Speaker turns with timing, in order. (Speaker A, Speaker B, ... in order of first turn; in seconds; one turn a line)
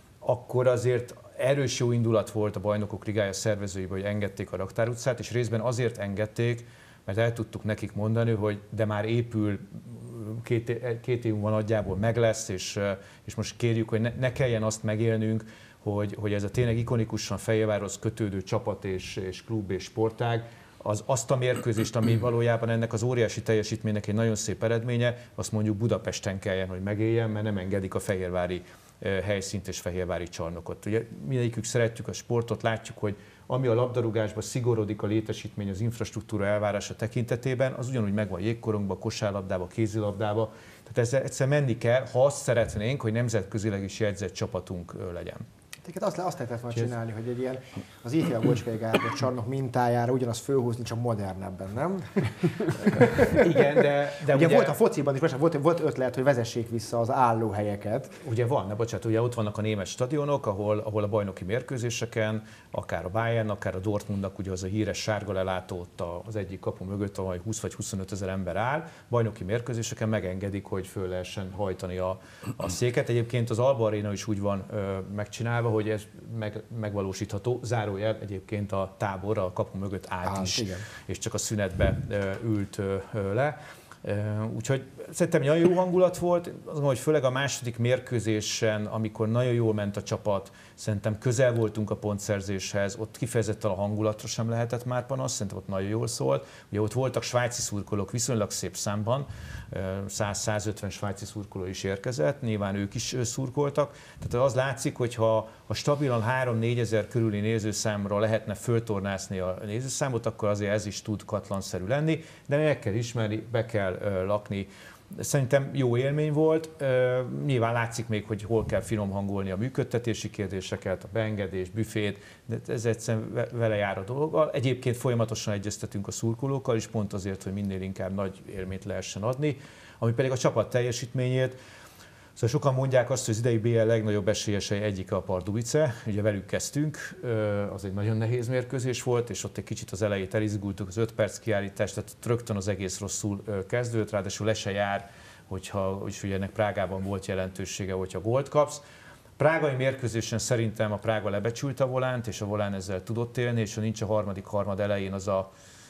Speaker A: 0.2-45.5
Speaker B: 45.8-53.6
Speaker A: 53.2-54.8
Speaker B: 54.3-58.1
Speaker A: 58.2-131.6
Speaker B: 80.2-80.8
Speaker A: 132.4-148.8
Speaker A: 149.4-155.5